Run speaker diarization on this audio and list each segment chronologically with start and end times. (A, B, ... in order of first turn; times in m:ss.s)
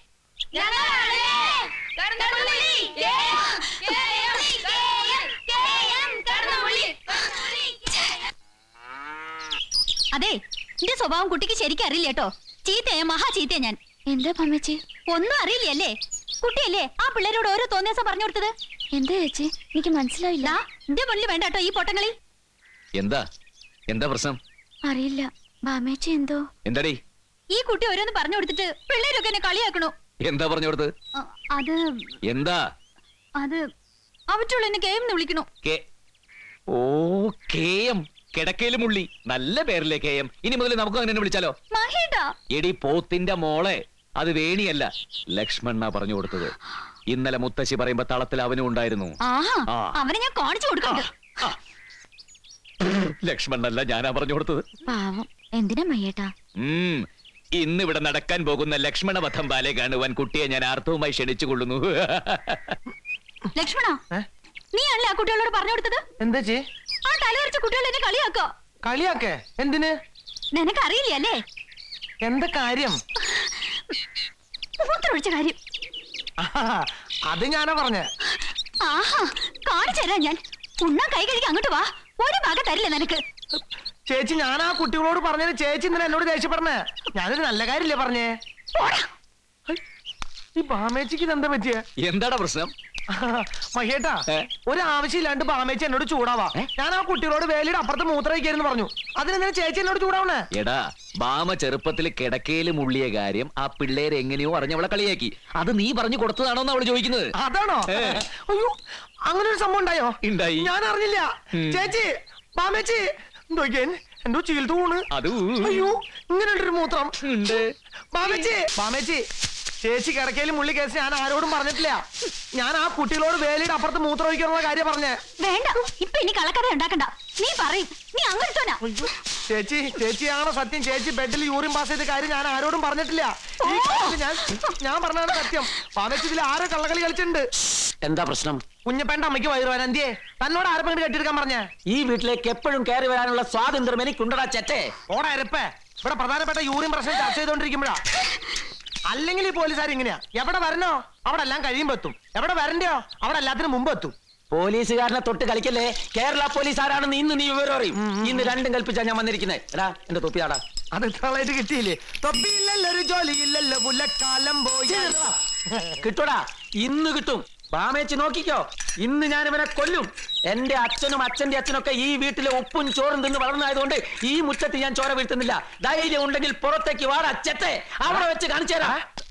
0:00.7-0:01.4 A
0:02.2-0:08.2 A
0:10.1-0:13.8 A
0:14.1-0:14.8 B
0:15.1-0:18.5 A
0:18.9-0:20.6 B
0:20.4-0:22.1 A
0:23.0-0:23.2 C
0:23.9-0:24.4 C
0:24.8-0:26.4 B
0:26.6-0:27.0 C
0:27.5-0:29.9 A
0:30.2-0:30.9 C
0:31.2-0:31.8 A
0:32.3-0:32.6 C
0:34.3-0:35.5 A
0:36.7-0:41.5 C
0:41.7-0:42.3 A
0:42.5-0:46.5 C
0:47.1-0:49.1 C
0:49.2-0:51.1 A
0:50.9-0:51.6 C
0:53.2-0:54.6 C
0:54.9-0:56.3 B
0:56.6-0:57.0 C
0:57.6-1:02.8 C
1:03.6-1:04.0 A
1:04.7-1:06.0 A
1:06.2-1:06.6 D
1:07.0-1:08.5 A
1:08.8-1:09.9 D
1:10.5-1:11.4 A
1:12.2-1:13.0 D
1:13.3-1:13.6 A
1:14.8-1:15.6 A
1:16.4-1:18.1 D
1:18.8-1:23.2 A
1:23.6-1:28.3 D
1:28.7-1:29.1 A
1:30.6-1:31.8 D
1:32.0-1:32.7 C
1:33.1-1:40.4 D
1:40.6-1:47.3 C
1:47.4-1:55.0 D
1:47.9-1:48.2 C
1:50.2-1:50.7 C
1:51.6-1:51.9 C
1:55.1-1:55.9 C
1:55.6-1:57.1 D
1:57.2-1:57.6 C
1:58.1-1:59.2 D
1:59.8-2:02.0 D
2:02.5-2:05.2 D
2:05.4-2:08.8 A
2:08.8-2:17.4 D
2:13.6-2:14.2 A
2:15.3-2:15.6 A
2:18.0-2:18.6 E
2:18.8-2:21.7 D
2:21.9-2:24.9 E
2:25.1-2:28.0 D
2:29.1-2:34.1 D
2:34.5-2:40.6 E
2:38.0-2:38.6 D
2:40.9-2:45.2 D
2:44.8-2:45.3 E
2:46.0-2:59.0 E